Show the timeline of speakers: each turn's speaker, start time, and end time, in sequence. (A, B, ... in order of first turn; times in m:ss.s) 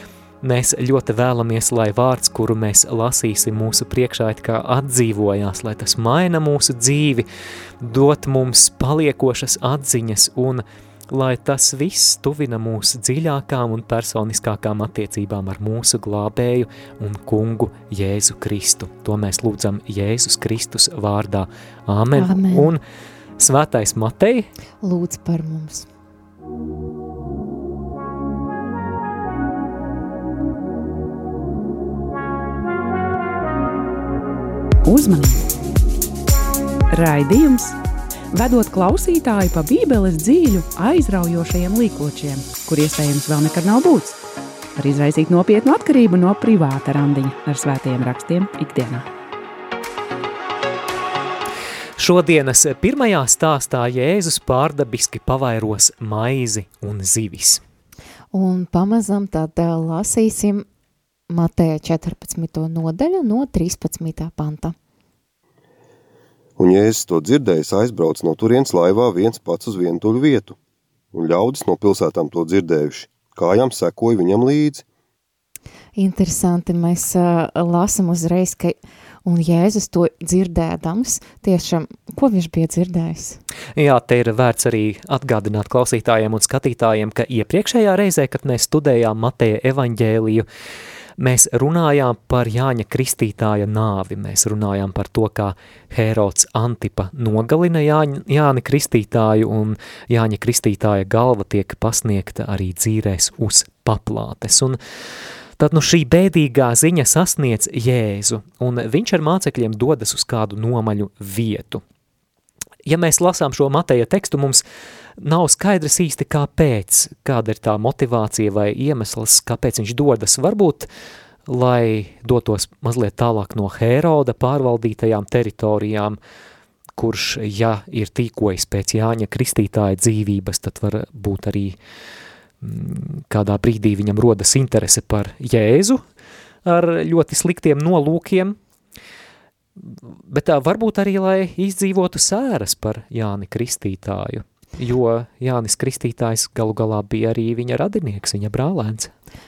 0:00.4-0:07.3 A
0:07.8-0:22.8 A
0:22.2-0:22.7 B
0:23.4-0:24.5 A
0:24.8-0:25.9 B
0:34.8-0:35.5 C
0:36.9-0:37.8 C
0:38.3-0:44.2 C
0:44.8-0:49.1 C
0:52.0-0:57.6 A
0:58.3-1:00.6 B
1:01.3-1:04.8 B
1:06.6-1:10.6 D
1:11.1-1:14.8 D
1:16.0-1:23.4 B
1:23.8-1:30.5 A
1:31.2-1:44.8 A
1:45.6-1:51.8 A
1:52.8-1:54.6 A
1:55.2-2:00.9 A
2:01.5-2:06.2 A
2:07.0-2:11.8 A
2:12.6-2:16.0 A
2:16.6-2:18.6 A
2:19.8-2:29.1 A